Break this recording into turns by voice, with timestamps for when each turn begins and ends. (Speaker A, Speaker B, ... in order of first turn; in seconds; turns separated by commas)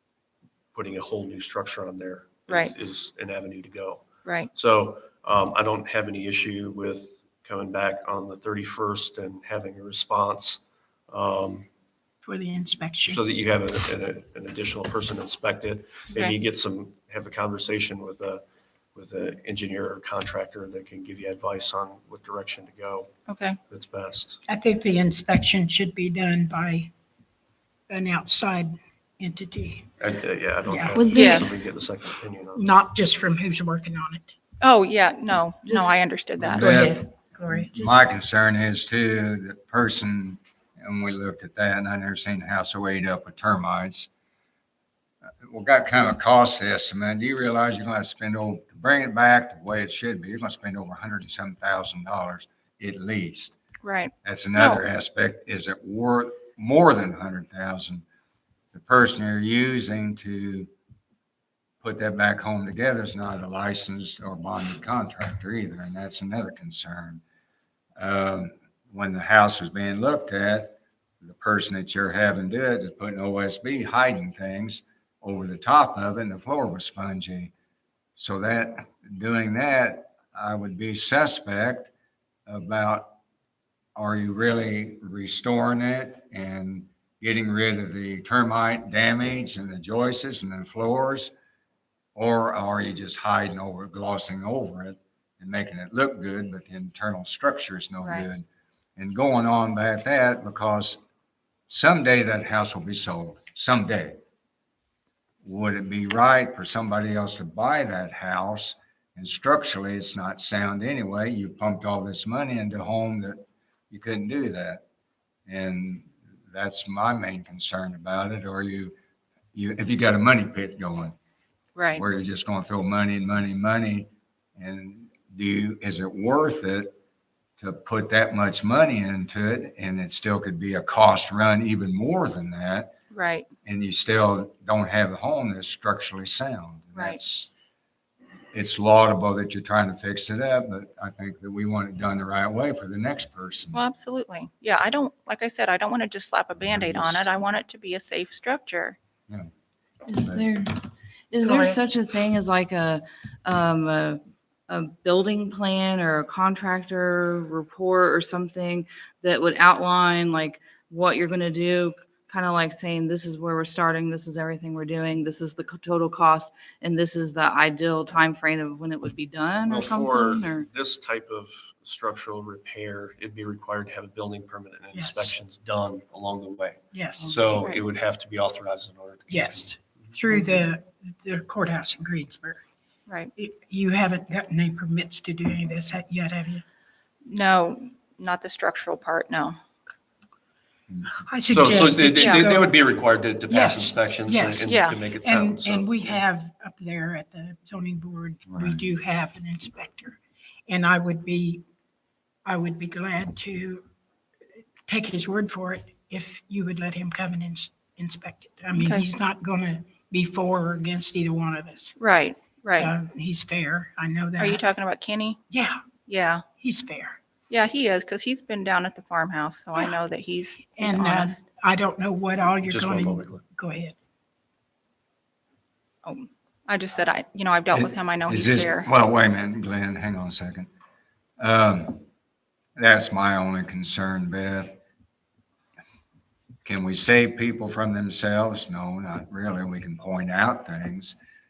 Speaker A: 0.7-11.7, Speaker B: 2.5-2.7, Speaker B: 4.2-4.5, Speaker C: 12.2-13.3, Speaker A: 13.1-18.4, Speaker A: 18.9-23.1, Speaker B: 23.3-23.6, Speaker A: 23.7-24.4, Speaker C: 24.5-26.9, Speaker C: 27.9-29.9, Speaker A: 30.0-32.6, Speaker C: 30.6-31.4, Speaker D: 30.9-31.5, Speaker B: 31.1-31.5, Speaker C: 32.5-34.3, Speaker B: 34.6-36.8, Speaker D: 35.6-35.9, Speaker E: 36.4-44.1, Speaker D: 36.5-38.0, Speaker E: 45.4-53.5, Speaker B: 53.8-54.8, Speaker E: 54.2-58.0, Speaker E: 58.7-60.7, Speaker E: 61.8-67.2, Speaker E: 68.0-77.5, Speaker E: 78.2-81.9, Speaker E: 82.5-83.1, Speaker E: 84.0-91.3, Speaker E: 92.1-98.4, Speaker E: 99.0-101.0, Speaker E: 101.7-104.2, Speaker E: 105.4-114.8, Speaker E: 115.5-118.9, Speaker E: 119.5-121.2, Speaker B: 121.8-122.0, Speaker E: 121.9-126.9, Speaker E: 127.6-132.9, Speaker B: 133.1-133.5, Speaker E: 133.7-137.5, Speaker B: 136.9-137.2, Speaker E: 138.5-143.8, Speaker B: 143.7-149.0, Speaker E: 146.6-147.3, Speaker D: 150.1-150.7, Speaker E: 150.2-150.4, Speaker D: 151.3-170.7, Speaker C: 151.4-151.8, Speaker A: 169.7-180.0, Speaker C: 174.9-175.4, Speaker C: 176.9-177.3, Speaker C: 179.3-182.6, Speaker B: 183.1-183.3, Speaker C: 183.4-186.6, Speaker B: 187.2-189.6, Speaker E: 190.9-191.1, Speaker C: 191.3-192.8, Speaker A: 191.5-196.2, Speaker B: 192.2-192.5, Speaker C: 193.5-201.6, Speaker B: 194.7-195.0, Speaker E: 198.5-198.9, Speaker C: 202.4-203.8, Speaker C: 204.9-211.9, Speaker B: 208.7-209.0, Speaker B: 212.0-212.9, Speaker C: 212.8-214.6, Speaker B: 214.4-215.4, Speaker C: 215.5-215.8, Speaker B: 216.1-216.4, Speaker C: 216.6-217.2, Speaker B: 217.5-221.4, Speaker C: 220.7-223.9, Speaker A: 222.4-223.4, Speaker B: 226.0-228.9, Speaker E: 227.7-230.7, Speaker E: 231.4-232.0, Speaker E: 232.8-234.8, Speaker E: 236.6-241.2